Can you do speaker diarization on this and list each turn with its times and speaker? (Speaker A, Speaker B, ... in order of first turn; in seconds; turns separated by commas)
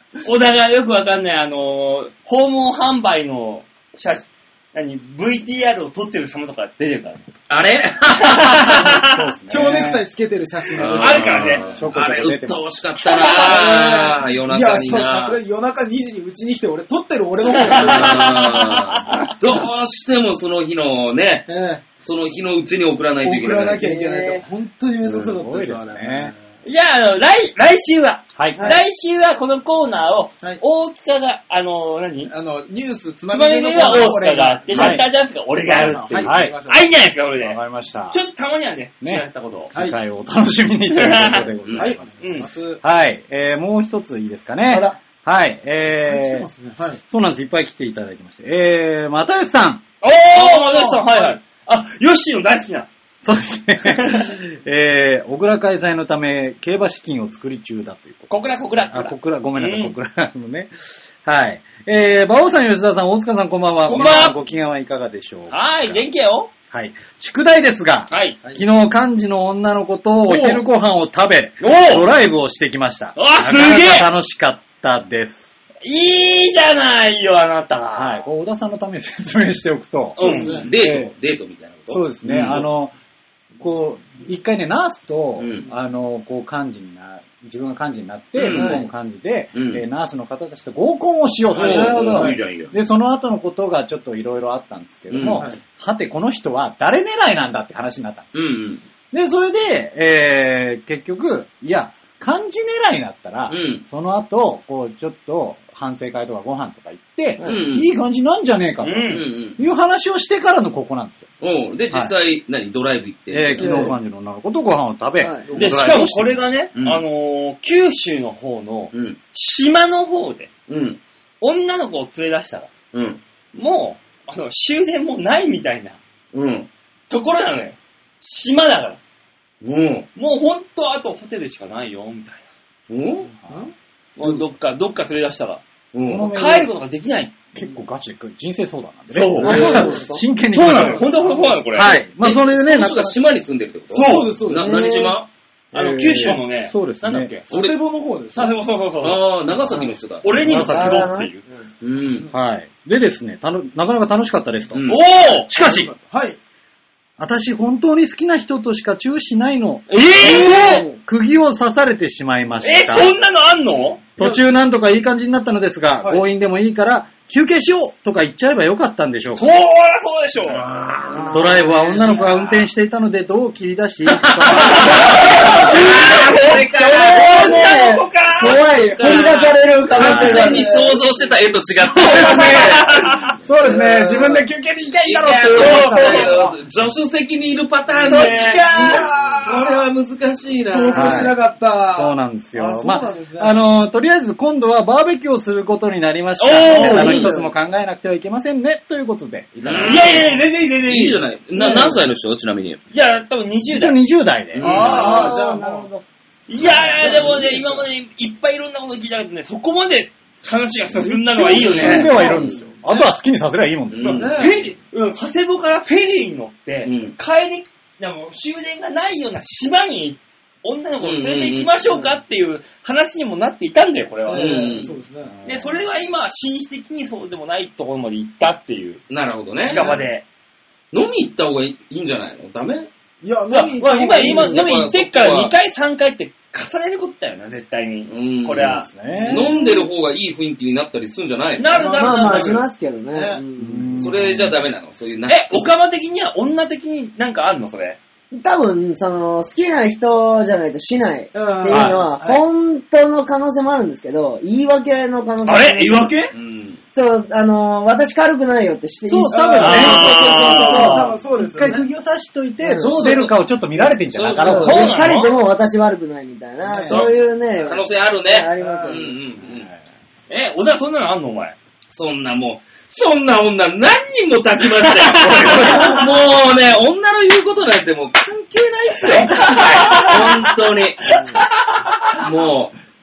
Speaker A: 0.2-7.2, Speaker B: 7.5-8.8, Speaker A: 8.2-9.2, Speaker C: 8.5-10.1, Speaker D: 9.5-11.8, Speaker B: 10.7-15.4, Speaker A: 10.8-11.8, Speaker C: 11.7-12.6, Speaker A: 13.1-13.6, Speaker D: 13.2-18.3, Speaker A: 17.5-19.3, Speaker B: 17.7-23.9, Speaker D: 21.5-21.9, Speaker D: 23.2-26.4, Speaker E: 23.8-24.4, Speaker C: 25.0-26.3, Speaker A: 26.6-32.3, Speaker C: 28.4-28.6, Speaker D: 32.3-35.1, Speaker A: 33.3-37.6, Speaker C: 34.7-35.1, Speaker D: 35.6-36.9, Speaker C: 36.2-36.6, Speaker C: 37.4-38.2, Speaker A: 38.1-39.7, Speaker C: 39.0-46.5, Speaker A: 40.9-41.5, Speaker B: 41.6-41.9, Speaker D: 41.7-42.8, Speaker A: 42.2-42.5, Speaker E: 44.7-45.0, Speaker D: 46.1-47.0, Speaker C: 47.1-49.8, Speaker A: 50.0-52.9, Speaker D: 50.3-51.4, Speaker C: 53.2-60.7, Speaker A: 53.9-54.3, Speaker A: 58.3-59.9, Speaker C: 61.2-66.1, Speaker A: 63.9-64.4, Speaker D: 64.0-64.3, Speaker A: 65.5-66.5, Speaker C: 66.7-75.5, Speaker A: 68.1-68.4, Speaker A: 70.3-70.6, Speaker A: 71.6-72.1, Speaker A: 73.2-74.1, Speaker A: 75.8-78.2, Speaker C: 77.9-81.1, Speaker A: 80.2-80.6, Speaker D: 80.2-80.7, Speaker B: 80.4-82.7, Speaker C: 81.9-82.9, Speaker C: 83.6-98.4, Speaker B: 85.4-85.7, Speaker B: 88.3-88.8, Speaker E: 88.5-88.8, Speaker B: 89.5-89.8, Speaker B: 91.5-92.7, Speaker E: 91.6-92.4, Speaker B: 95.1-95.5, Speaker D: 95.2-95.6, Speaker B: 98.3-98.8, Speaker C: 99.1-111.3, Speaker B: 103.5-103.8, Speaker B: 107.4-107.9, Speaker A: 108.8-109.3, Speaker B: 109.1-109.6, Speaker B: 111.4-113.8, Speaker C: 113.3-116.5, Speaker D: 113.6-113.9, Speaker E: 115.2-115.5, Speaker A: 115.5-120.5, Speaker B: 115.6-116.0, Speaker B: 116.7-117.0, Speaker B: 118.9-119.2, Speaker B: 120.7-121.0, Speaker A: 121.4-122.7, Speaker B: 122.9-123.2, Speaker A: 123.5-126.0, Speaker B: 126.3-126.7, Speaker A: 127.1-129.0, Speaker B: 129.6-130.1, Speaker A: 130.1-132.4, Speaker B: 132.9-133.3, Speaker D: 133.5-133.7, Speaker A: 134.2-135.6, Speaker B: 135.9-136.3, Speaker C: 136.1-136.7, Speaker A: 136.2-137.4, Speaker C: 137.5-141.1, Speaker A: 139.1-139.9, Speaker E: 139.4-140.2, Speaker D: 139.4-140.1, Speaker A: 140.5-142.1, Speaker D: 140.7-141.7, Speaker C: 141.7-143.2, Speaker B: 142.1-145.3, Speaker A: 143.9-144.4, Speaker D: 144.0-144.8, Speaker E: 144.6-145.2, Speaker C: 145.7-147.4, Speaker A: 145.7-147.5, Speaker D: 147.5-148.6, Speaker B: 147.5-147.8, Speaker A: 148.3-149.2, Speaker B: 149.0-150.5, Speaker C: 149.7-151.1, Speaker A: 150.2-151.4, Speaker E: 150.4-151.3, Speaker B: 151.8-152.3, Speaker C: 152.3-155.9, Speaker B: 154.7-155.1, Speaker A: 154.9-155.5, Speaker D: 155.5-156.4, Speaker C: 157.2-163.1, Speaker A: 159.9-160.8, Speaker D: 160.2-160.9, Speaker A: 162.6-164.0, Speaker C: 164.2-169.6, Speaker D: 166.0-166.2, Speaker A: 169.3-170.6, Speaker B: 170.6-171.3, Speaker E: 171.1-171.7, Speaker D: 171.3-172.2, Speaker C: 171.3-175.8, Speaker A: 172.1-172.4, Speaker B: 174.1-177.7, Speaker A: 174.6-176.4, Speaker E: 175.1-180.9, Speaker A: 176.9-178.7, Speaker B: 178.5-183.1, Speaker D: 180.3-181.0, Speaker D: 182.0-182.7, Speaker C: 182.1-184.5, Speaker A: 182.5-183.2, Speaker D: 183.6-186.6, Speaker B: 183.6-184.4, Speaker B: 185.0-191.3, Speaker A: 185.6-186.3, Speaker D: 187.9-189.8, Speaker A: 188.1-189.1, Speaker D: 190.6-193.6, Speaker C: 190.9-191.4, Speaker C: 191.9-200.2, Speaker A: 196.4-197.3, Speaker D: 196.7-197.5, Speaker B: 196.9-197.3, Speaker A: 199.6-201.8, Speaker B: 199.6-202.8, Speaker A: 202.9-204.0, Speaker C: 203.7-205.2, Speaker B: 204.6-205.3, Speaker D: 204.6-205.9, Speaker E: 204.7-206.1, Speaker A: 206.5-212.2, Speaker D: 206.6-207.9, Speaker C: 211.0-214.3, Speaker B: 211.7-212.1, Speaker E: 211.8-212.4, Speaker D: 211.9-212.4, Speaker B: 213.9-214.6, Speaker D: 214.1-214.6, Speaker A: 214.3-224.8, Speaker B: 216.8-217.2, Speaker B: 221.0-221.8, Speaker D: 224.3-225.3, Speaker B: 224.3-224.9, Speaker C: 225.2-225.8, Speaker A: 225.4-229.0, Speaker B: 229.1-229.9, Speaker A: 229.6-230.2, Speaker D: 229.7-230.0, Speaker B: 230.9-232.9, Speaker D: 233.2-234.7, Speaker A: 233.5-238.9, Speaker B: 234.2-235.5, Speaker B: 238.1-242.0, Speaker C: 238.6-239.5, Speaker D: 239.3-239.7, Speaker A: 241.6-242.6, Speaker D: 241.7-243.4, Speaker E: 241.9-243.9, Speaker C: 243.6-244.6, Speaker B: 243.9-245.7, Speaker A: 245.3-248.0, Speaker E: 248.3-256.1, Speaker D: 251.3-252.4, Speaker C: 251.7-252.0, Speaker A: 255.4-256.3, Speaker B: 256.3-256.8, Speaker E: 256.9-261.1, Speaker C: 259.1-265.1, Speaker D: 259.3-261.9, Speaker A: 259.6-261.1, Speaker E: 262.6-262.9, Speaker B: 262.8-263.4, Speaker B: 264.1-264.9, Speaker E: 264.4-269.1, Speaker A: 264.6-265.3, Speaker D: 266.7-267.1, Speaker B: 266.9-269.7, Speaker D: 268.6-269.1, Speaker C: 269.4-269.8, Speaker A: 270.3-271.6, Speaker B: 271.9-281.2, Speaker A: 274.9-276.0, Speaker C: 275.4-275.8, Speaker C: 279.0-279.6, Speaker A: 279.3-280.5, Speaker A: 281.1-281.9, Speaker B: 282.2-282.8